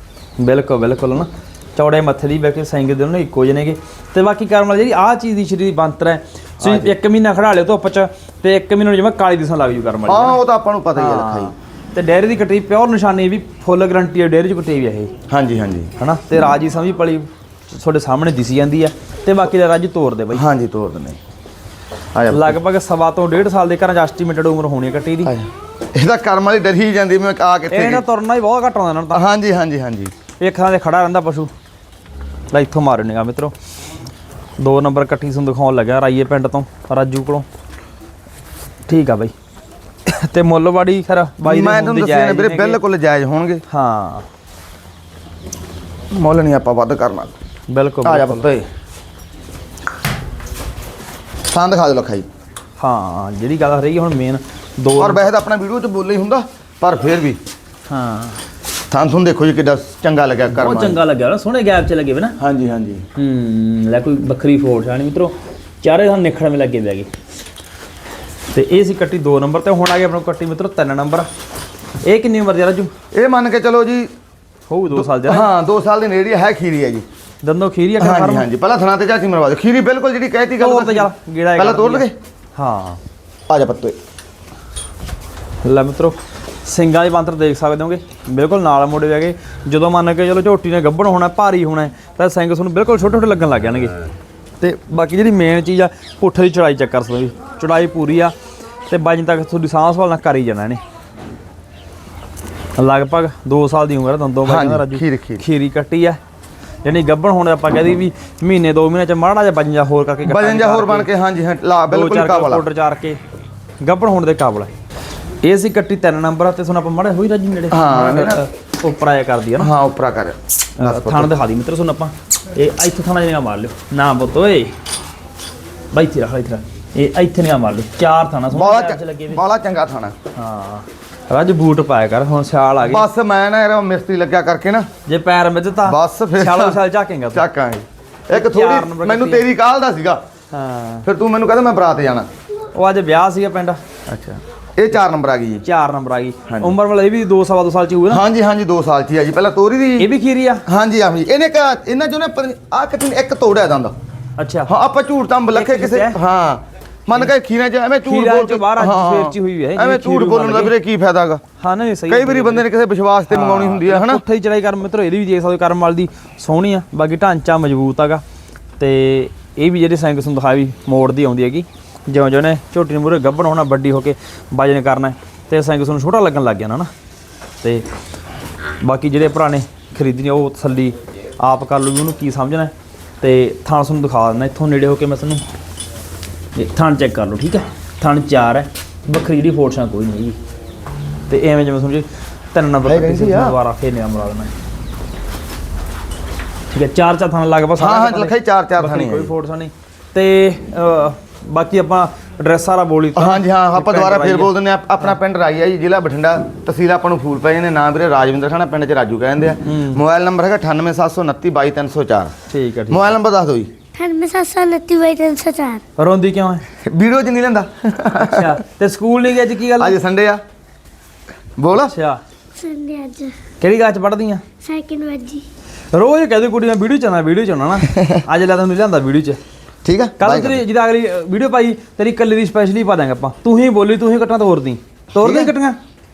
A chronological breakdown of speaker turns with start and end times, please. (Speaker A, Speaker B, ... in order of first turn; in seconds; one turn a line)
Speaker A: 0.4-10.4
Speaker B: 6.6-7.0
Speaker B: 10.1-11.5
Speaker A: 11.0-15.1
Speaker B: 15.3-15.9
Speaker A: 16.0-20.4
Speaker B: 20.3-21.2
Speaker B: 22.1-22.6
Speaker A: 22.3-25.3
Speaker B: 25.2-28.0
Speaker A: 27.7-29.2
Speaker B: 29.1-30.1
Speaker A: 30.4-31.5
Speaker A: 32.5-33.5
Speaker A: 34.6-37.5
Speaker A: 38.9-39.3
Speaker A: 40.1-42.8
Speaker B: 41.4-43.6
Speaker A: 43.7-44.3
Speaker B: 46.1-47.3
Speaker A: 47.7-48.5
Speaker B: 48.0-48.7
Speaker B: 51.5-52.3
Speaker A: 52.8-55.2
Speaker B: 55.0-57.4
Speaker A: 57.9-58.4
Speaker B: 58.9-61.0
Speaker A: 60.5-62.4
Speaker B: 62.4-63.0
Speaker A: 63.2-67.1
Speaker A: 68.5-71.3
Speaker A: 72.0-72.9
Speaker B: 73.1-74.1
Speaker A: 74.7-75.5
Speaker B: 74.9-77.0
Speaker A: 77.4-78.5
Speaker B: 78.0-82.2
Speaker A: 80.6-83.0
Speaker B: 83.5-84.0
Speaker A: 85.6-94.0
Speaker A: 94.6-98.3
Speaker A: 98.9-100.8
Speaker A: 102.8-106.2
Speaker B: 104.5-105.5
Speaker A: 106.8-111.1
Speaker B: 110.2-112.7
Speaker A: 111.9-113.2
Speaker A: 113.8-114.7
Speaker A: 115.4-119.7
Speaker B: 117.7-118.4
Speaker B: 119.6-121.3
Speaker A: 120.8-124.8
Speaker A: 125.9-129.4
Speaker B: 128.5-130.1
Speaker A: 130.3-133.1
Speaker B: 132.8-134.9
Speaker A: 135.1-137.4
Speaker B: 135.8-140.2
Speaker A: 138.3-139.4
Speaker A: 140.5-141.1
Speaker B: 141.1-142.3
Speaker A: 142.7-144.4
Speaker B: 144.8-145.6
Speaker A: 145.6-148.2
Speaker B: 146.5-146.8
Speaker B: 148.1-150.1
Speaker A: 150.0-150.6
Speaker B: 150.7-153.9
Speaker A: 154.4-154.7
Speaker B: 154.7-161.4
Speaker A: 155.5-156.2
Speaker A: 158.0-160.7
Speaker A: 161.6-162.7
Speaker B: 162.1-164.2
Speaker A: 163.3-168.2
Speaker A: 168.8-176.9
Speaker A: 178.8-185.4
Speaker A: 186.6-190.4
Speaker A: 191.3-194.5
Speaker B: 192.8-193.6
Speaker A: 196.7-204.5
Speaker B: 197.8-199.3
Speaker B: 203.2-212.3
Speaker A: 209.7-210.0
Speaker A: 212.5-213.2
Speaker B: 212.9-213.7
Speaker C: 213.9-215.8
Speaker A: 216.0-216.6
Speaker B: 216.8-218.6
Speaker A: 218.2-220.0
Speaker B: 219.8-220.4
Speaker B: 221.6-221.9
Speaker A: 221.7-222.2
Speaker C: 222.6-223.4
Speaker A: 223.6-224.4
Speaker C: 224.6-225.4
Speaker A: 225.9-229.4
Speaker B: 227.8-228.2
Speaker B: 229.8-230.6
Speaker A: 230.2-235.8
Speaker B: 235.2-235.5